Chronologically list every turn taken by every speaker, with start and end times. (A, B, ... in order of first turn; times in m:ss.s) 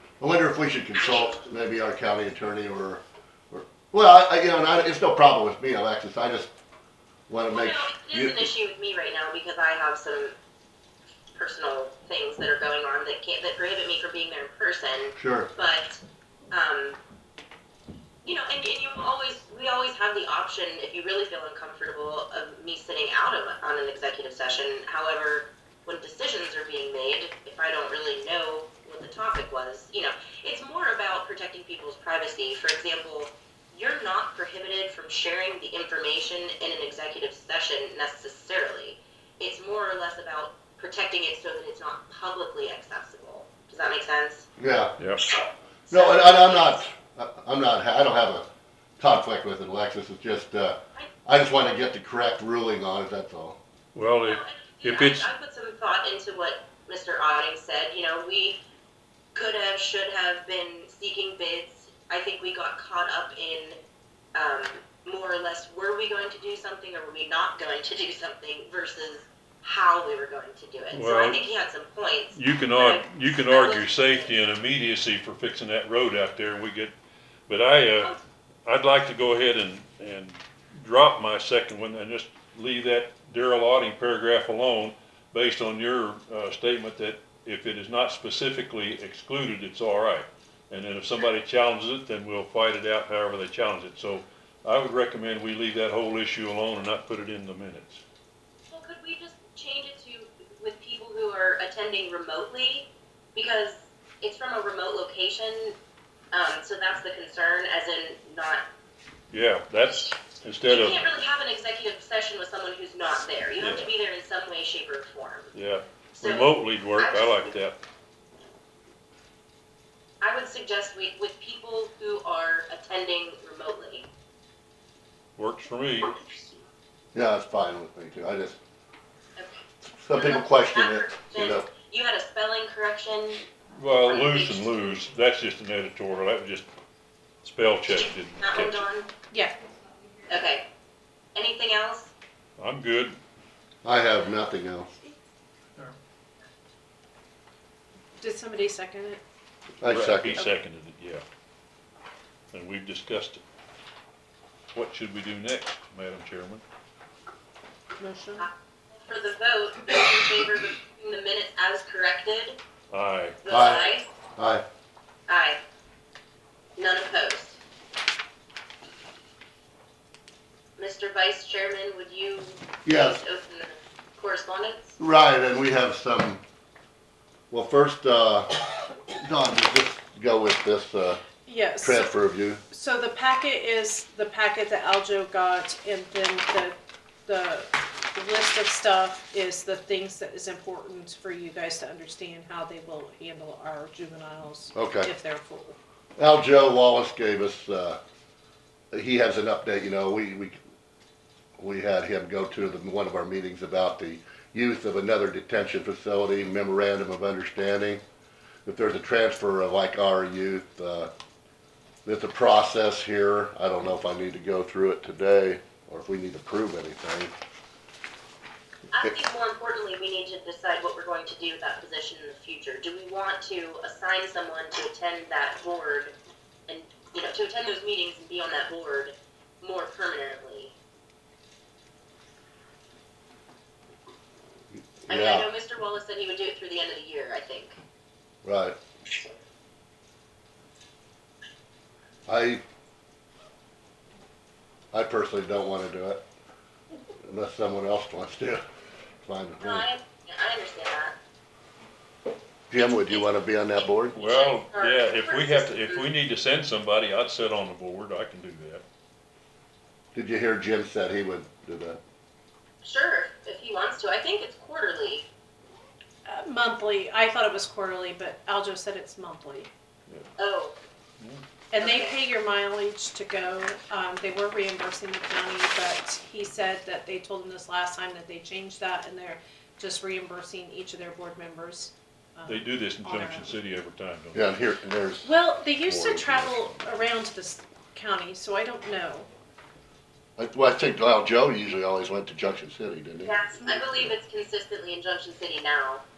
0:00.2-0:06.5 A
0:01.0-0:01.3 B
0:07.3-0:08.5 A
0:07.5-0:10.4 B
0:11.3-0:17.0 B
0:15.2-0:15.5 A
0:18.2-0:44.5 B
0:44.6-0:45.0 A
0:45.0-0:45.3 C
0:45.9-0:48.5 A
0:45.9-0:46.8 B
0:49.0-0:53.6 A
0:53.9-0:55.3 C
0:54.2-0:58.6 B
0:59.3-1:03.8 B
1:04.4-1:14.4 B
1:10.9-1:11.4 C
1:12.3-1:16.9 C
1:17.5-1:38.0 C
1:38.7-1:45.8 B
1:46.3-1:48.7 B
1:49.3-1:51.1 C
1:50.6-1:55.5 B
1:53.6-1:53.9 C
1:55.5-1:57.8 C
1:56.2-1:57.5 B
2:00.2-2:04.1 B
2:05.4-2:06.2 C
2:07.1-2:08.6 A
2:09.4-2:13.4 B
2:09.9-2:11.7 A
2:13.7-2:16.7 C
2:14.0-2:14.9 B
2:17.4-2:18.8 C
2:17.9-2:19.1 B
2:20.3-2:20.7 B
2:21.4-2:22.1 B
2:22.6-2:23.2 C
2:23.8-2:24.9 A
2:28.2-2:29.2 D
2:29.8-2:30.4 A
2:29.9-2:31.2 C
2:32.5-2:33.4 C
2:34.7-2:36.6 C
2:38.0-2:38.5 D
2:38.4-2:42.6 B
2:42.9-2:43.4 C
2:43.4-2:44.1 B
2:43.5-2:44.6 A
2:45.3-2:45.6 B
2:46.8-2:47.6 B
2:50.8-2:55.0 B
2:52.8-2:53.2 A
2:55.0-2:56.4 A
2:57.5-3:01.2 A
3:01.4-3:02.1 D
3:01.8-3:02.6 A
3:02.7-3:15.8 D
3:14.7-3:15.1 A
3:16.2-3:18.0 A
3:18.9-3:20.6 A
3:21.6-3:28.0 A
3:28.6-3:31.1 A
3:32.0-3:37.3 A
3:38.9-3:46.1 B
3:46.7-3:50.8 B
3:55.1-3:55.5 A
3:55.1-3:57.8 B
3:58.4-3:58.8 A
4:02.3-4:02.6 A
4:04.9-4:06.2 A
4:07.2-4:08.6 A
4:09.2-4:09.9 A
4:09.6-4:11.2 B
4:12.7-4:14.2 A
4:14.2-4:16.1 B
4:14.2-4:18.8 C
4:20.1-4:22.0 A
4:22.8-4:25.3 B
4:26.3-4:29.7 D
4:30.4-4:30.8 B
4:31.7-4:43.5 D
4:31.8-4:32.2 B
4:42.4-4:44.5 C
4:44.3-4:45.4 A
4:45.2-4:49.3 D
4:45.9-4:46.8 C
4:50.4-4:53.4 A
4:53.2-4:56.0 B